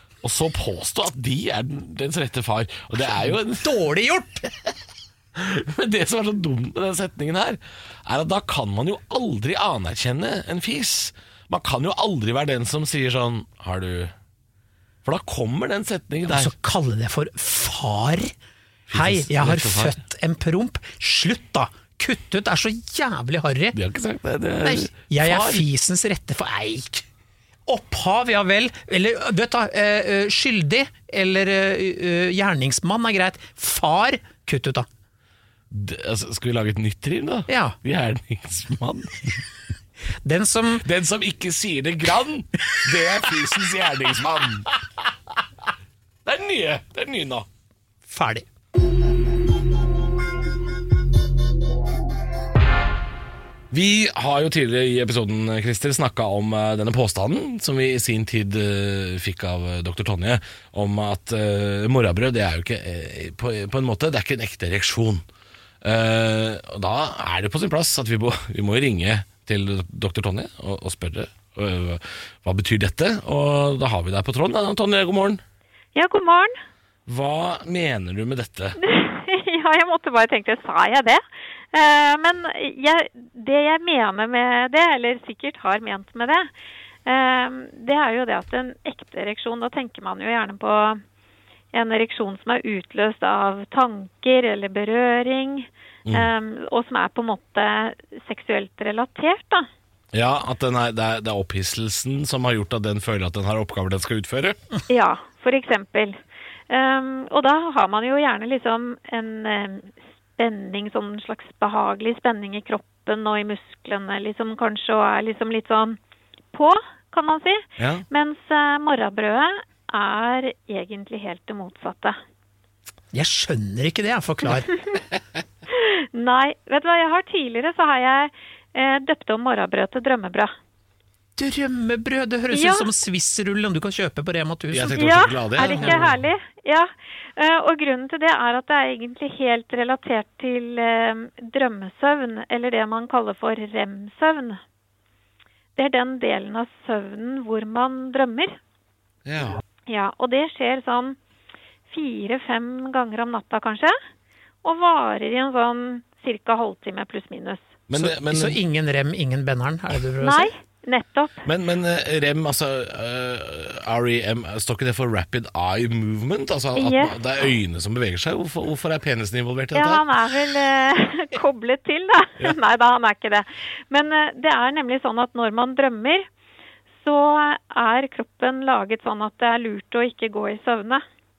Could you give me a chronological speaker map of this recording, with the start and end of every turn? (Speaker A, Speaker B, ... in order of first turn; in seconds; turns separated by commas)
Speaker A: 0.2-3.7, Speaker B: 3.2-4.5, Speaker A: 5.3-14.1, Speaker A: 15.0-16.5, Speaker B: 16.3-18.3, Speaker A: 18.9-20.0, Speaker B: 18.9-23.8, Speaker A: 23.7-25.7, Speaker B: 24.6-27.1, Speaker B: 27.7-34.9, Speaker A: 35.7-39.4, Speaker B: 37.5-37.8, Speaker B: 40.2-40.9, Speaker A: 40.8-44.7, Speaker A: 46.2-47.5, Speaker B: 48.1-48.5, Speaker A: 53.7-65.2, Speaker A: 65.8-75.4, Speaker C: 76.0-76.6, Speaker A: 77.1-78.8, Speaker C: 78.8-86.5, Speaker C: 87.1-91.0, Speaker C: 91.7-99.7, Speaker A: 96.1-96.3, Speaker A: 100.1-104.6, Speaker C: 104.9-106.2, Speaker C: 106.7-116.0, Speaker C: 116.5-122.2, Speaker A: 117.8-118.1, Speaker B: 123.1-124.7, Speaker C: 125.7-130.5, Speaker B: 131.4-136.0, Speaker C: 132.5-132.9, Speaker A: 134.7-136.3, Speaker C: 134.9-144.6, Speaker C: 145.8-148.6, Speaker A: 149.2-149.6, Speaker C: 149.9-151.2, Speaker C: 151.9-154.0, Speaker C: 154.6-157.7, Speaker A: 157.9-158.6, Speaker B: 157.9-160.5, Speaker C: 160.2-161.5, Speaker A: 161.4-170.1, Speaker C: 166.8-167.2, Speaker C: 169.7-176.3, Speaker C: 177.0-181.0